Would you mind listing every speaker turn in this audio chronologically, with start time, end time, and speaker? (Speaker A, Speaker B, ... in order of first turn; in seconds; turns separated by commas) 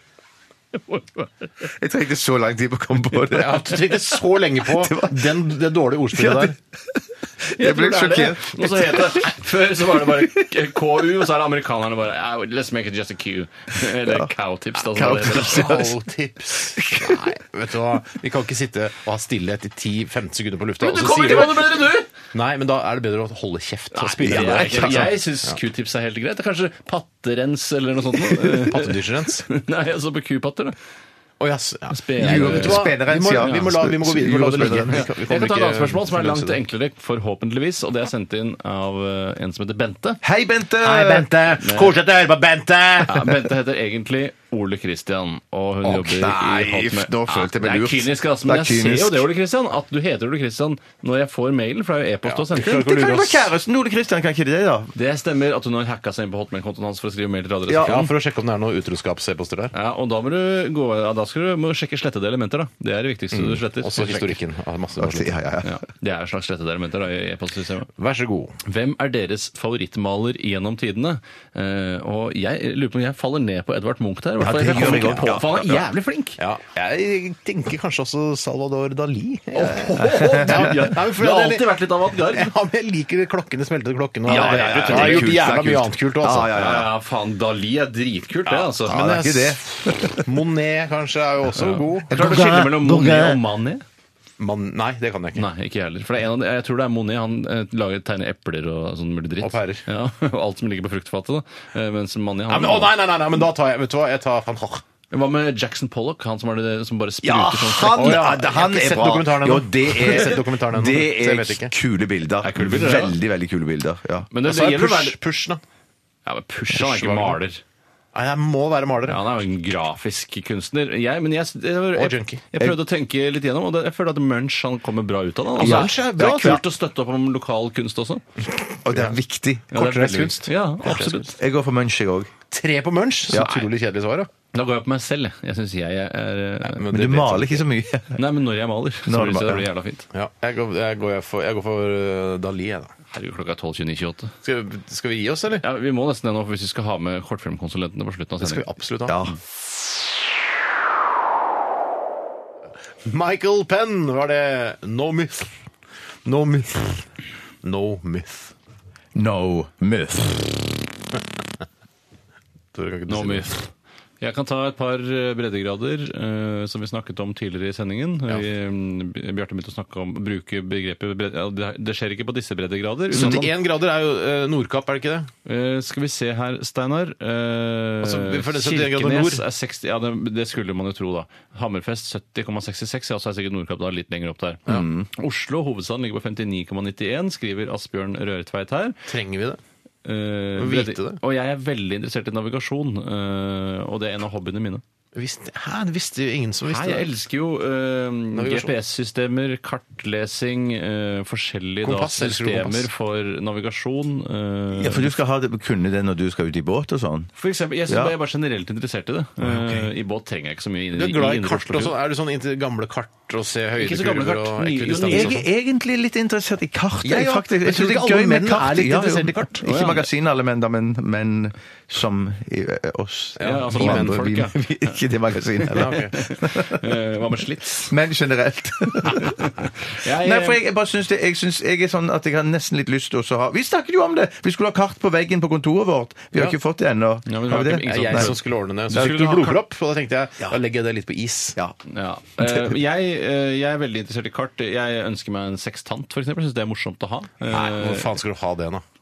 Speaker A: 0.7-1.5, Speaker B: 1.6-5.3, Speaker C: 3.3-6.6, Speaker B: 6.1-9.3, Speaker A: 7.5-15.7, Speaker B: 14.9-15.9, Speaker C: 15.0-25.6, Speaker B: 16.8-17.2, Speaker A: 20.8-22.1, Speaker A: 23.9-30.8, Speaker B: 24.2-25.1, Speaker C: 28.3-29.4, Speaker C: 31.4-36.5, Speaker A: 31.9-33.8, Speaker B: 32.2-35.0, Speaker A: 34.4-40.2, Speaker B: 40.2-41.3, Speaker C: 40.8-43.3, Speaker A: 41.6-41.9, Speaker A: 43.0-53.2, Speaker B: 45.8-49.3, Speaker C: 52.2-53.3, Speaker B: 52.5-54.9, Speaker A: 54.9-58.1, Speaker C: 57.8-59.7, Speaker A: 59.7-64.3, Speaker C: 63.3-65.4, Speaker B: 65.0-65.8, Speaker A: 65.6-67.9, Speaker C: 68.0-68.5, Speaker A: 68.6-76.4, Speaker B: 74.4-75.8, Speaker C: 76.4-86.5, Speaker A: 79.5-82.5, Speaker B: 80.0-80.8, Speaker B: 84.2-86.9, Speaker A: 84.3-85.4, Speaker A: 86.5-89.0, Speaker C: 88.5-92.2, Speaker B: 88.9-90.3, Speaker A: 91.6-93.8, Speaker B: 92.1-93.4, Speaker C: 94.4-95.5, Speaker A: 95.3-102.9, Speaker C: 99.4-99.8, Speaker C: 102.5-104.8, Speaker A: 105.1-108.2, Speaker B: 107.2-114.3, Speaker C: 107.9-111.7, Speaker A: 112.4-113.2, Speaker A: 114.3-115.2, Speaker C: 114.4-115.6, Speaker A: 116.2-117.6, Speaker C: 116.7-117.4, Speaker C: 118.1-119.2, Speaker A: 119.1-128.2, Speaker C: 122.0-122.4, Speaker C: 125.6-126.6, Speaker B: 125.6-126.6, Speaker B: 128.8-130.3, Speaker C: 128.9-129.2, Speaker A: 129.7-131.3, Speaker C: 129.7-131.3, Speaker B: 130.8-132.3, Speaker C: 132.5-134.3, Speaker A: 133.4-133.7, Speaker A: 134.5-136.8, Speaker C: 136.8-137.6, Speaker B: 136.9-138.2, Speaker A: 138.1-140.1, Speaker B: 139.1-139.6, Speaker C: 140.1-142.9, Speaker A: 143.1-144.3, Speaker C: 144.4-145.6, Speaker A: 145.6-148.6, Speaker C: 148.4-149.2, Speaker B: 149.1-149.4, Speaker C: 153.1-155.5, Speaker C: 156.2-157.0, Speaker C: 157.6-158.5, Speaker B: 159.1-160.8, Speaker C: 162.7-163.5, Speaker A: 163.1-163.7, Speaker A: 164.2-173.5, Speaker C: 173.1-175.3, Speaker B: 173.1-173.4, Speaker A: 175.4-188.9, Speaker C: 178.0-179.4, Speaker B: 184.7-185.1, Speaker C: 189.1-189.6, Speaker A: 190.0-194.8, Speaker C: 190.6-191.2, Speaker C: 195.1-197.1, Speaker A: 196.7-205.1, Speaker C: 198.3-198.7, Speaker C: 201.8-202.9, Speaker B: 204.7-207.3, Speaker A: 207.4-211.9, Speaker B: 207.9-208.1, Speaker B: 209.4-209.9, Speaker C: 210.9-215.5, Speaker A: 213.8-215.4, Speaker B: 215.1-227.0, Speaker C: 217.0-219.6, Speaker A: 219.6-220.1, Speaker C: 223.4-224.2, Speaker A: 223.4-225.0, Speaker A: 225.6-227.9, Speaker C: 225.7-226.2, Speaker B: 227.9-229.5, Speaker A: 229.0-230.6, Speaker B: 230.1-238.3, Speaker A: 237.2-239.6, Speaker C: 237.7-241.6, Speaker B: 238.9-239.2, Speaker A: 241.8-248.1, Speaker B: 242.4-242.7, Speaker C: 247.5-248.8